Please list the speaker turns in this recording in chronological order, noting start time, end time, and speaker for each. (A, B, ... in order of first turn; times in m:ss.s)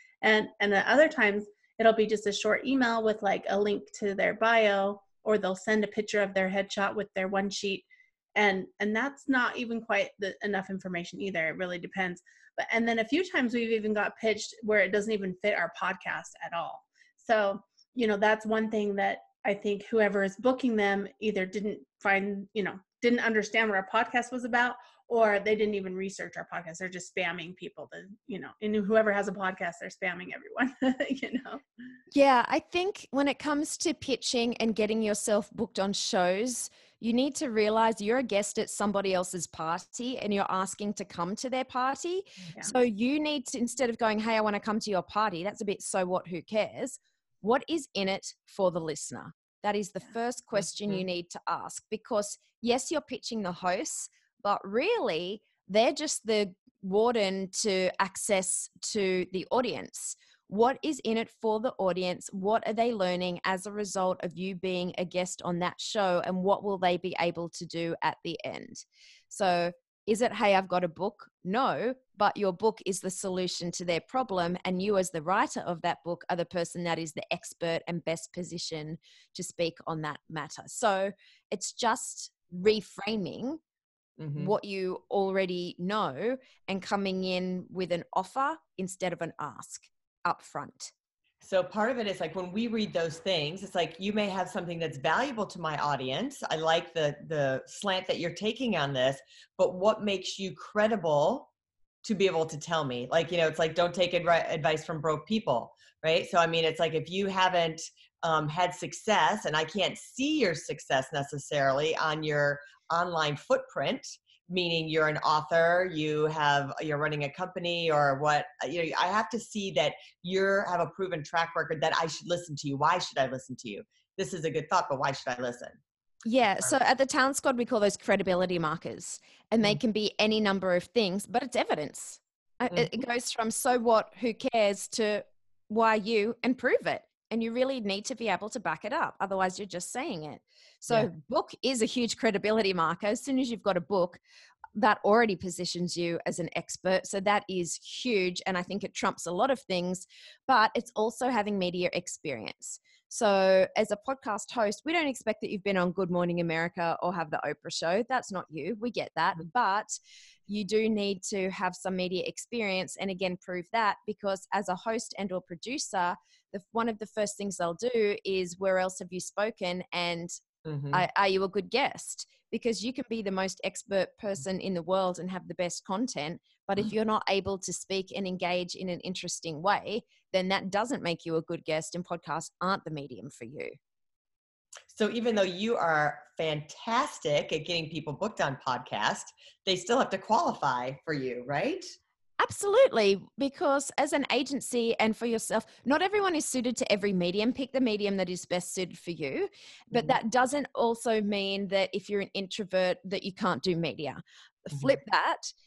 0:00.2-0:31.6 A
0:32.1-1:23.6 B
1:24.2-1:24.5 C
1:24.4-1:30.9 B
1:31.4-1:41.5 C
1:42.0-2:05.8 C
2:06.2-2:24.2 B
2:24.8-2:40.0 B
2:40.5-2:50.4 B
2:50.7-2:51.0 C
2:50.9-3:03.8 B
3:04.9-3:11.9 C
3:12.4-3:25.5 B